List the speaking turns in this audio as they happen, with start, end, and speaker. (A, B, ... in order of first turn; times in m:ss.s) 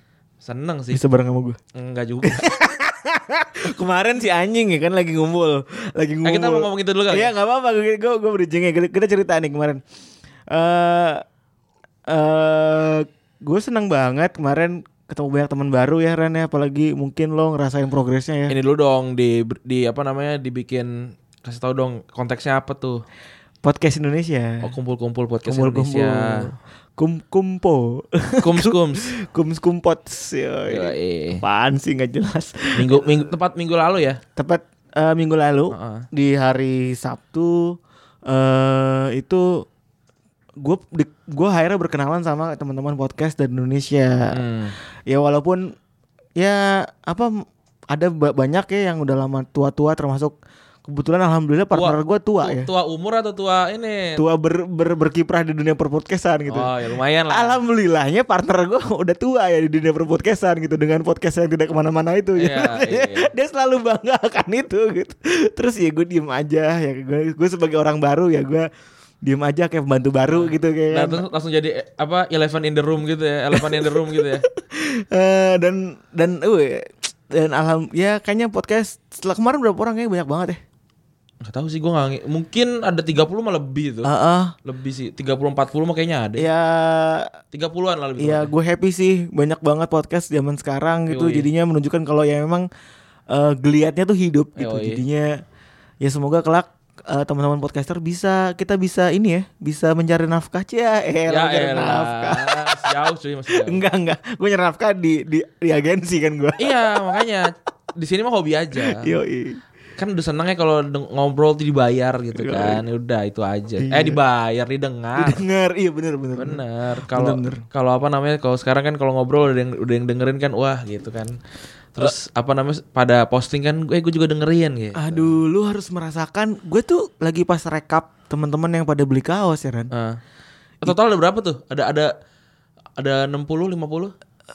0:00.4-0:01.0 A
0:00.9-0:01.6 B
0:01.8-0:02.6 A
0:02.2-0:09.8 B
0:06.2-0:07.3 A
0:10.5-0:11.2 B
0:12.1-0:18.5 B
0:18.5-0:23.0 A
0:23.6-0:24.7 B
0:24.6-0:26.5 A
0:25.4-0:33.0 B
0:28.4-0:29.2 A
0:30.7-0:31.4 A
0:32.8-0:34.2 A
0:34.4-0:39.7 B
0:35.7-0:36.1 A
0:40.6-0:44.4 B
0:44.3-0:44.8 A
0:45.1-0:45.7 B
0:46.4-0:47.4 B
0:47.9-0:52.7 B
0:51.7-0:54.2 A
0:54.2-0:56.7 B
0:56.5-0:57.6 A
0:57.3-1:08.7 B
1:02.4-1:03.3 A
1:09.2-1:11.2 B
1:10.3-1:14.5 A
1:13.6-1:20.6 B
1:21.4-1:24.1 A
1:24.0-1:24.5 B
1:24.6-1:26.5 A
1:26.4-1:27.3 B
1:27.5-1:28.5 A
1:28.2-1:32.7 B
1:31.1-1:31.5 A
1:33.3-1:35.4 B
1:34.6-1:35.0 A
1:36.0-1:42.9 B
1:41.3-1:43.8 A
1:43.5-1:47.2 B
1:46.6-1:49.1 A
1:48.8-1:49.6 B
1:50.0-1:55.4 A
1:52.3-1:52.8 B
1:53.8-1:54.2 B
1:55.2-1:57.6 B
1:56.4-2:01.4 A
2:02.0-2:05.3 A
2:05.0-2:09.9 B
2:09.9-2:10.2 A
2:10.8-2:12.1 A
2:13.0-2:14.1 A